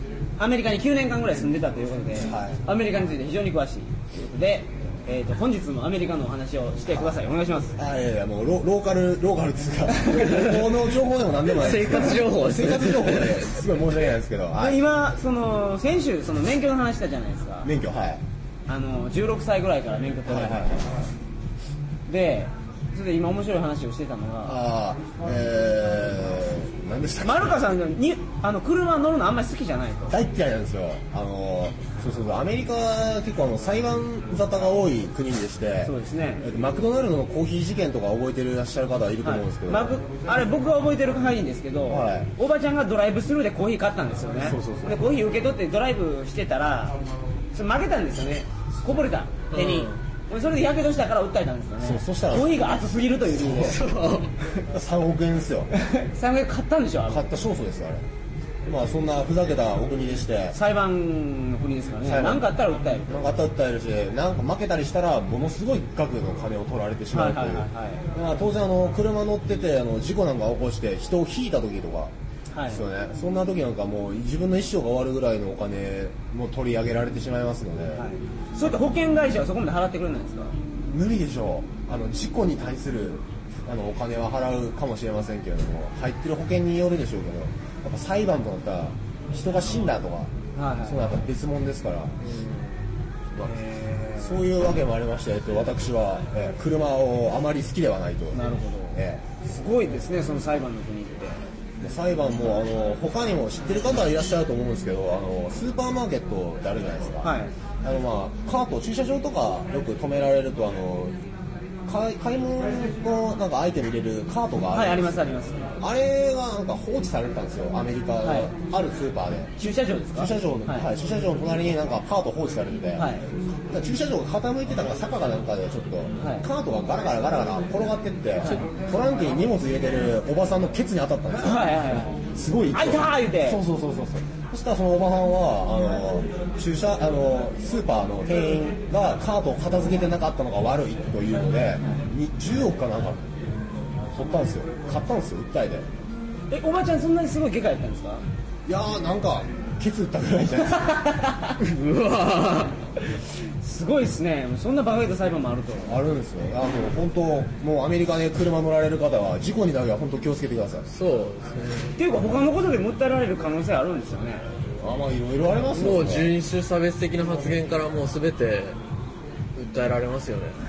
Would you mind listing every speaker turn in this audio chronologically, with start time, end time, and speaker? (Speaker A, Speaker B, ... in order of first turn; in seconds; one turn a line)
Speaker A: 0.4-7.8
Speaker B: 2.2-2.6
Speaker B: 7.8-14.8
Speaker C: 10.2-10.7
Speaker C: 11.5-13.6
Speaker A: 14.6-17.7
Speaker B: 17.6-18.2
Speaker A: 18.7-20.8
Speaker B: 20.3-20.9
Speaker A: 22.1-24.6
Speaker B: 24.4-27.6
Speaker A: 27.2-30.2
Speaker B: 30.1-40.0
Speaker A: 35.9-36.5
Speaker A: 39.2-47.0
Speaker B: 41.9-42.3
Speaker B: 44.4-45.0
Speaker A: 47.5-53.8
Speaker C: 49.5-50.0
Speaker B: 51.8-52.7
Speaker B: 53.4-53.8
Speaker C: 53.5-54.3
Speaker B: 54.7-55.7
Speaker A: 55.8-57.3
Speaker B: 57.1-58.0
Speaker B: 58.7-60.6
Speaker A: 60.5-63.1
Speaker B: 62.0-72.1
Speaker A: 67.1-68.0
Speaker A: 72.5-72.8
Speaker B: 72.7-78.1
Speaker A: 78.0-80.5
Speaker B: 80.9-90.3
Speaker A: 90.5-91.1
Speaker B: 90.8-92.3
Speaker A: 93.4-94.4
Speaker B: 94.2-98.4
Speaker A: 98.3-101.4
Speaker B: 98.9-99.2
Speaker B: 101.8-111.2
Speaker A: 107.2-107.5
Speaker B: 111.9-115.2
Speaker A: 114.7-115.7
Speaker B: 115.8-119.6
Speaker A: 118.2-118.5
Speaker A: 119.6-120.9
Speaker B: 120.1-123.1
Speaker A: 123.0-123.3
Speaker B: 123.7-143.4
Speaker A: 126.2-126.5
Speaker A: 128.4-128.7
Speaker A: 131.4-133.6
Speaker B: 144.1-145.9
Speaker A: 146.5-148.2
Speaker B: 148.7-151.1
Speaker A: 151.0-151.6
Speaker C: 151.6-152.8
Speaker A: 153.6-155.9
Speaker B: 155.9-160.9
Speaker C: 160.9-161.9
Speaker A: 162.0-164.4
Speaker B: 164.8-166.3
Speaker C: 165.8-168.8
Speaker C: 169.6-170.6